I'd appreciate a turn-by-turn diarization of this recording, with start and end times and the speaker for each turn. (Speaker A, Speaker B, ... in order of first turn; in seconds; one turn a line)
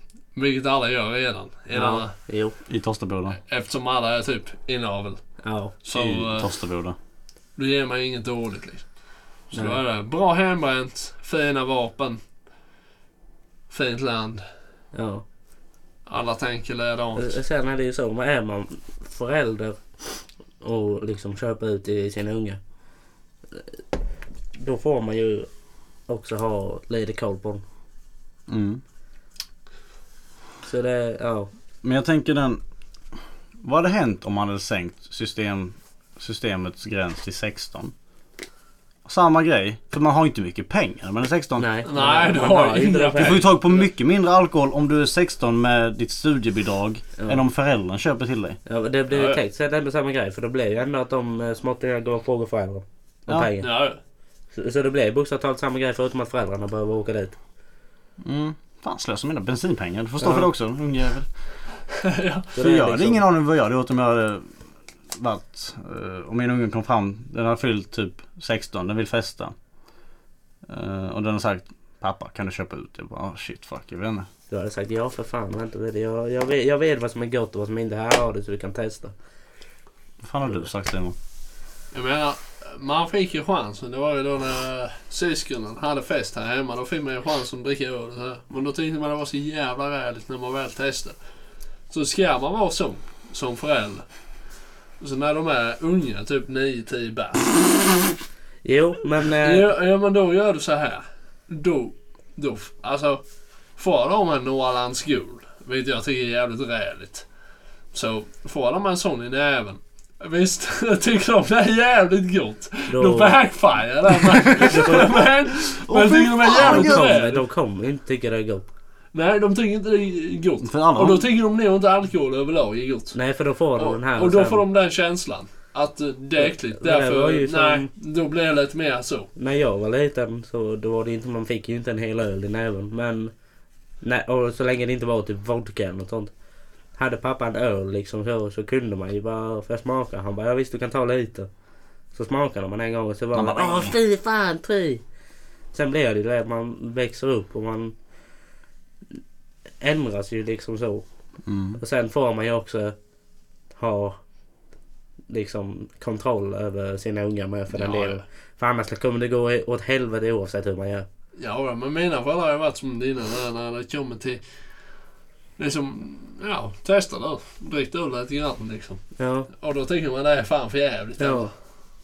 Speaker A: 0.3-2.1
Speaker B: 1.7-2.5
Speaker C: 2.7-3.4
Speaker A: 3.4-5.2
Speaker B: 5.4-5.7
Speaker A: 5.8-6.5
Speaker C: 5.9-7.0
Speaker A: 7.5-8.8
Speaker A: 9.5-12.2
Speaker B: 9.5-9.8
Speaker A: 13.7-14.4
Speaker B: 14.9-15.2
Speaker A: 16.1-17.3
Speaker B: 17.1-19.8
Speaker B: 20.6-22.6
Speaker B: 24.6-25.5
Speaker B: 26.1-27.6
Speaker C: 28.5-28.8
Speaker B: 30.6-31.5
Speaker C: 31.8-32.6
Speaker C: 33.6-37.9
Speaker C: 39.0-41.7
Speaker B: 41.6-43.4
Speaker A: 41.9-43.7
Speaker C: 43.2-48.6
Speaker B: 48.6-53.7
Speaker A: 49.1-49.4
Speaker A: 53.6-54.0
Speaker B: 54.5-57.4
Speaker C: 58.2-61.3
Speaker B: 60.2-60.5
Speaker A: 62.0-62.5
Speaker B: 62.5-63.2
Speaker C: 62.6-64.5
Speaker C: 65.1-69.5
Speaker C: 70.7-74.3
Speaker B: 74.5-79.1
Speaker C: 80.2-81.2
Speaker A: 81.9-91.2
Speaker A: 91.9-94.0
Speaker A: 95.0-98.0
Speaker B: 98.6-99.7
Speaker A: 99.4-103.2
Speaker A: 103.8-107.2
Speaker A: 107.9-117.4
Speaker B: 112.9-113.4
Speaker B: 114.6-115.1
Speaker C: 115.9-117.1
Speaker B: 116.5-118.7
Speaker A: 119.1-123.2
Speaker C: 120.6-121.3
Speaker B: 123.1-124.6
Speaker A: 123.8-129.3
Speaker B: 126.4-127.9
Speaker B: 129.3-133.3
Speaker B: 134.0-136.3
Speaker B: 137.0-141.5
Speaker B: 142.1-145.0
Speaker C: 143.3-143.9
Speaker B: 145.7-147.9
Speaker B: 149.8-151.0
Speaker C: 151.4-151.8
Speaker B: 151.8-152.9
Speaker B: 153.8-154.2
Speaker B: 155.3-161.1
Speaker A: 157.7-158.2
Speaker A: 161.4-164.4
Speaker A: 165.6-171.5
Speaker B: 169.2-169.5
Speaker B: 171.2-171.5